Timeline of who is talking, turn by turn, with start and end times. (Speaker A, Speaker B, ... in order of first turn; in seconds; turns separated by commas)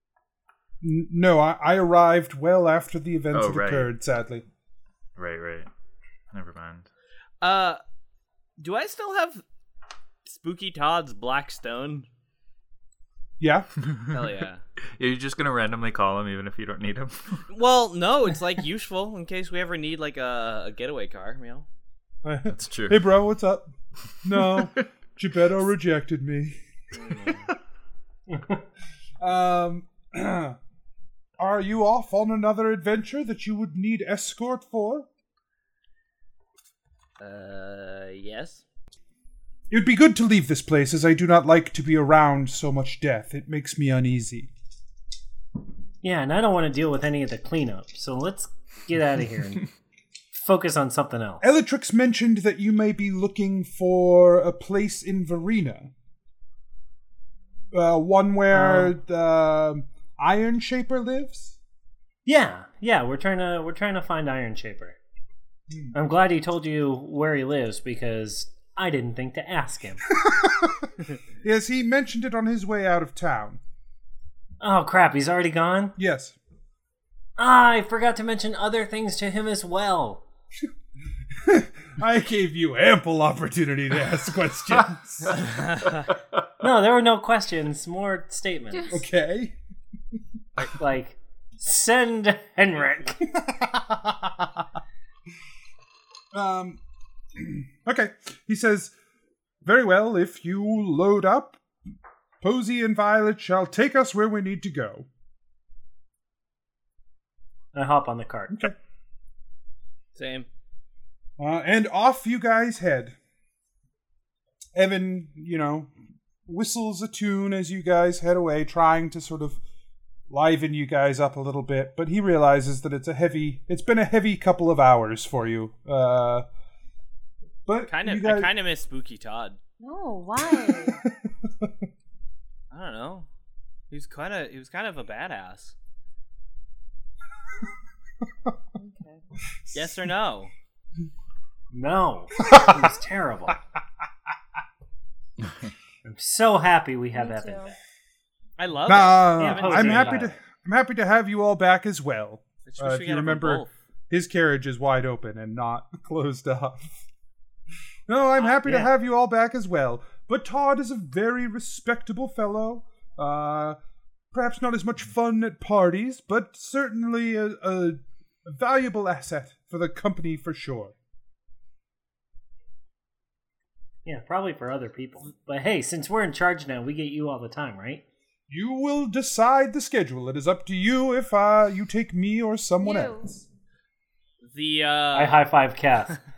Speaker A: 0.8-4.5, Speaker B: 3.3-3.9, Speaker B: 5.2-5.7, Speaker B: 6.3-6.9, Speaker C: 7.4-7.8, Speaker C: 8.6-9.4, Speaker C: 10.3-12.1, Speaker A: 13.4-13.7, Speaker B: 13.9-14.2, Speaker C: 14.1-14.6, Speaker B: 15.0-17.4, Speaker C: 17.5-21.7, Speaker A: 22.2-23.7, Speaker B: 22.5-23.1, Speaker A: 24.2-26.6, Speaker C: 26.9-27.5, Speaker D: 28.3-28.6, Speaker A: 29.2-30.6, Speaker A: 31.4-35.1, Speaker C: 37.2-38.6, Speaker A: 39.7-44.5, Speaker D: 46.0-49.7, Speaker D: 50.4-51.4, Speaker A: 51.4-55.9, Speaker A: 57.7-61.6, Speaker D: 58.5-59.0, Speaker D: 62.3-65.0, Speaker D: 65.9-70.0, Speaker A: 70.2-70.9, Speaker A: 71.4-73.6, Speaker D: 74.6-76.0, Speaker A: 76.0-76.4, Speaker D: 77.4-80.2, Speaker A: 81.4-85.4, Speaker C: 85.4-86.1, Speaker D: 86.6-88.9, Speaker E: 88.7-89.0, Speaker A: 88.9-89.6, Speaker D: 90.8-93.2, Speaker A: 93.3-94.6, Speaker A: 96.3-96.8, Speaker A: 97.4-98.9, Speaker A: 99.6-101.6, Speaker A: 102.4-105.1, Speaker D: 107.7-108.7, Speaker C: 110.2-110.5, Speaker A: 111.4-113.2, Speaker A: 114.8-115.9, Speaker A: 116.5-119.6, Speaker A: 120.3-126.5, Speaker A: 127.7-128.5, Speaker C: 127.9-129.6, Speaker E: 129.8-131.0, Speaker A: 131.0-131.7, Speaker C: 132.7-133.3, Speaker C: 133.9-135.8, Speaker E: 138.8-139.2, Speaker A: 139.7-140.0, Speaker C: 139.7-140.5, Speaker D: 141.7-143.6, Speaker A: 142.4-142.7, Speaker D: 146.1-147.7, Speaker E: 147.1-147.7, Speaker C: 148.6-150.2, Speaker A: 148.9-157.0, Speaker D: 149.4-150.4, Speaker C: 152.7-153.7, Speaker A: 158.1-163.8, Speaker D: 158.6-158.9, Speaker A: 164.3-170.9, Speaker D: 174.1-178.0, Speaker A: 178.5-183.4, Speaker E: 182.8-183.3, Speaker C: 184.4-185.5, Speaker D: 185.1-186.2